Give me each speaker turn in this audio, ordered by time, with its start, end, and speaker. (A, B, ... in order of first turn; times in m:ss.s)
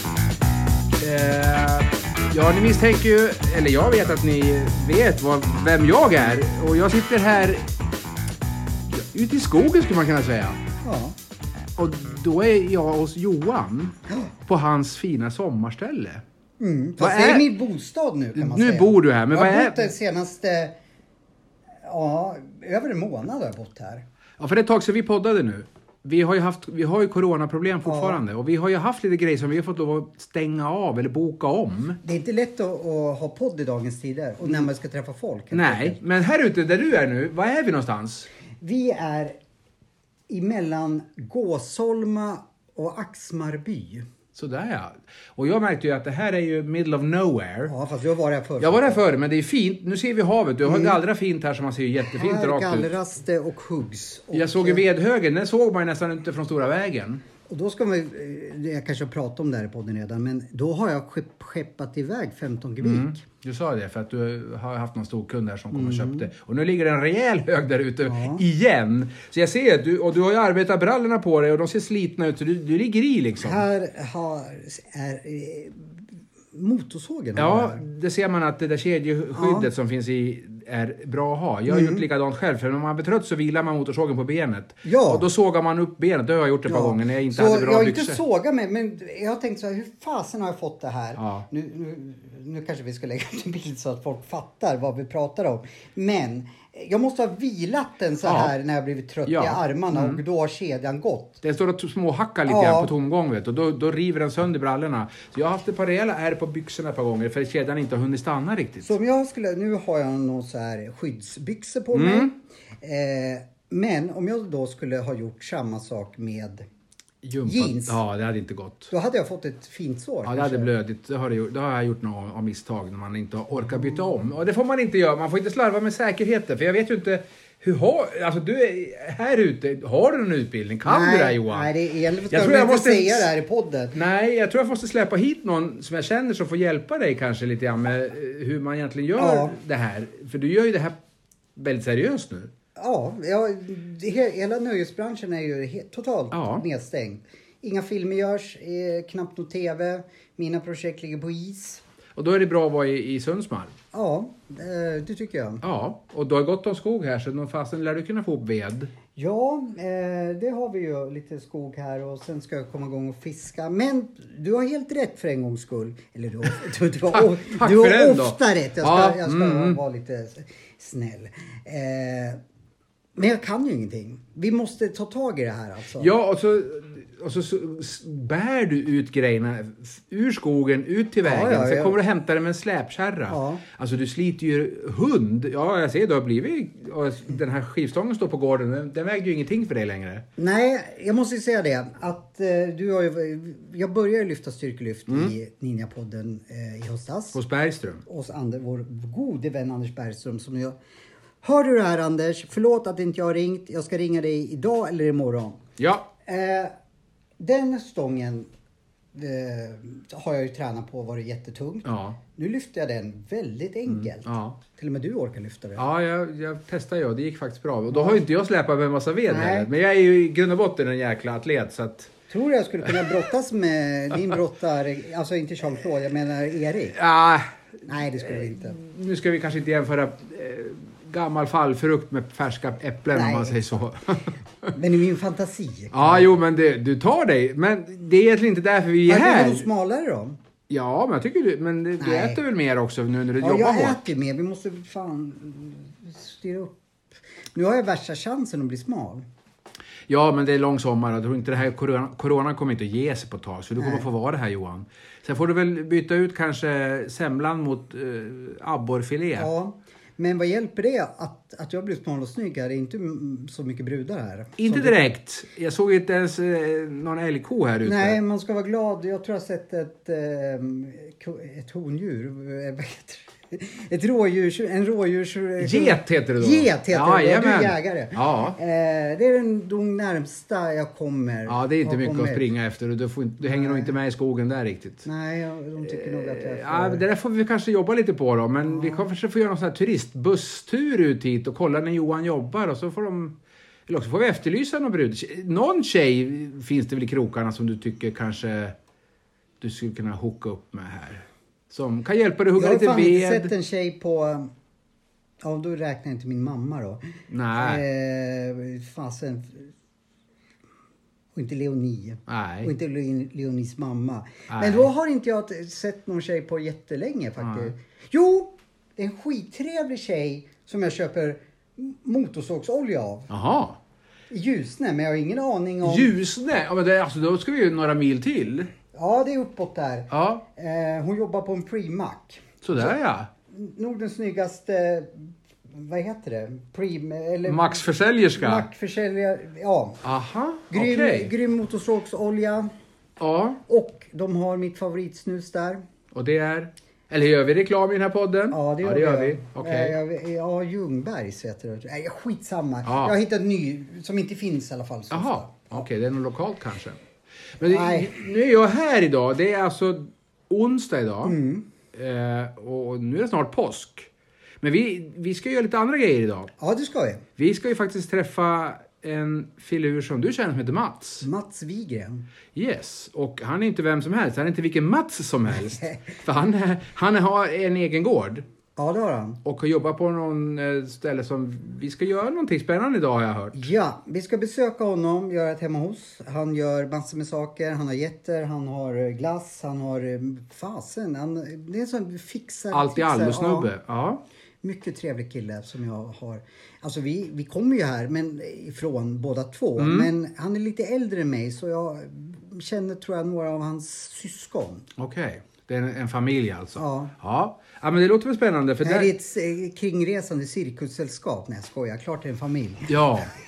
0:01.0-0:07.7 A
0:08.9-0:10.6 A
0:10.8-0:11.2 B
0:11.8-0:16.2 A
0:16.6-0:20.8 B
0:17.0-0:17.5 A
0:18.4-0:19.9 A
0:21.8-0:24.0 B
0:24.4-0:32.0 A
0:27.8-0:28.2 B
0:32.0-0:36.0 B
0:35.5-0:38.3 A
0:38.6-0:39.4 B
0:40.3-0:44.1 B
0:44.4-0:47.7 A
0:47.7-0:49.0 B
0:48.6-0:52.9 A
0:50.6-0:51.0 B
0:52.1-0:54.8 B
0:54.3-0:57.2 A
0:57.5-1:03.1 B
1:02.8-1:13.6 A
1:05.7-1:06.3 B
1:08.0-1:08.4 B
1:13.4-1:16.0 B
1:16.5-1:17.8 B
1:17.4-1:28.2 A
1:19.4-1:19.7 B
1:21.7-1:22.1 B
1:24.8-1:25.2 B
1:26.7-1:41.4 B
1:31.2-1:31.5 A
1:38.2-1:38.5 A
1:39.3-1:40.2 A
1:41.4-1:48.9 A
1:42.5-1:42.9 B
1:48.8-1:56.6 B
1:51.9-1:52.3 A
1:57.2-1:58.9 A
1:57.4-1:58.0 B
1:58.9-2:00.7 B
2:00.2-2:11.7 A
2:10.8-2:14.0 B
2:12.3-2:13.3 A
2:13.9-2:21.0 A
2:19.2-2:19.6 B
2:21.6-2:22.5 A
2:22.8-2:31.8 B
2:26.3-2:26.6 A
2:32.2-2:33.8 A
2:33.9-2:35.6 B
2:35.6-2:38.9 A
2:39.2-2:52.4 B
2:47.2-2:49.8 A
2:53.2-2:56.1 B
2:56.0-3:10.2 A
3:01.2-3:02.0 B
3:03.3-3:03.6 B
3:10.4-3:17.4 B
3:15.1-3:15.3 A
3:17.3-3:18.0 A
3:18.0-3:20.8 B
3:21.4-3:25.6 B
3:25.8-3:26.1 A
3:26.2-3:26.7 B
3:27.4-3:28.5 B
3:29.1-3:35.8 B
3:31.9-3:32.2 A
3:33.9-3:34.6 A
3:35.8-3:42.1 A
3:37.9-3:38.2 B
3:39.3-3:39.7 B
3:42.3-3:47.0 B
3:47.0-3:54.7 A
3:47.9-3:48.8 B
3:53.1-3:53.8 B
3:54.7-3:56.3 B
3:55.9-3:59.7 A
3:59.1-4:00.4 B
4:00.7-4:04.0 A
4:02.0-4:02.4 B
4:03.4-4:06.8 B
4:07.6-4:09.3 B
4:10.1-4:19.5 A
4:13.8-4:14.1 B
4:19.4-4:25.1 B
4:24.6-4:28.2 A
4:27.8-4:42.5 B
4:35.6-4:38.6 A
4:41.5-4:45.1 A
4:43.4-4:43.9 B
4:45.0-4:47.0 B
4:45.9-4:53.4 A
4:48.7-4:49.0 B
4:53.9-4:58.8 A
4:59.6-5:03.5 A
5:02.6-5:04.5 B
5:05.4-5:09.7 B
5:07.3-5:07.8 A
5:11.3-5:23.3 B
5:12.3-5:12.7 A
5:14.5-5:14.9 A
5:17.4-5:17.7 A
5:23.3-5:23.8 A
5:24.3-5:26.1 B
5:25.8-5:28.7 A
5:28.9-5:33.0 B
5:30.1-5:30.4 A
5:32.6-5:33.3 A
5:33.5-5:40.0 B
5:37.5-5:38.7 A
5:40.0-5:41.3 A
5:40.7-5:42.7 B
5:43.2-5:43.6 A
5:43.7-5:45.8 B
5:46.1-5:50.0 A
5:48.5-5:55.8 B
5:52.9-5:53.2 A
5:55.1-5:57.0 A
5:57.6-6:01.4 A
5:57.6-5:58.2 B
6:01.2-6:01.7 B
6:01.9-6:04.1 A
6:04.6-6:06.5 A
6:06.6-6:07.2 B
6:07.4-6:11.3 A
6:11.2-6:12.3 B
6:12.6-6:18.4 A
6:18.8-6:19.4 B
6:19.4-6:23.6 A
6:23.6-6:33.7 B
6:32.7-6:34.2 A
6:34.6-6:44.9 B
6:39.8-6:40.1 A
6:45.0-6:49.1 A
6:46.8-6:47.1 B
6:48.8-6:53.1 B
6:52.9-6:53.3 A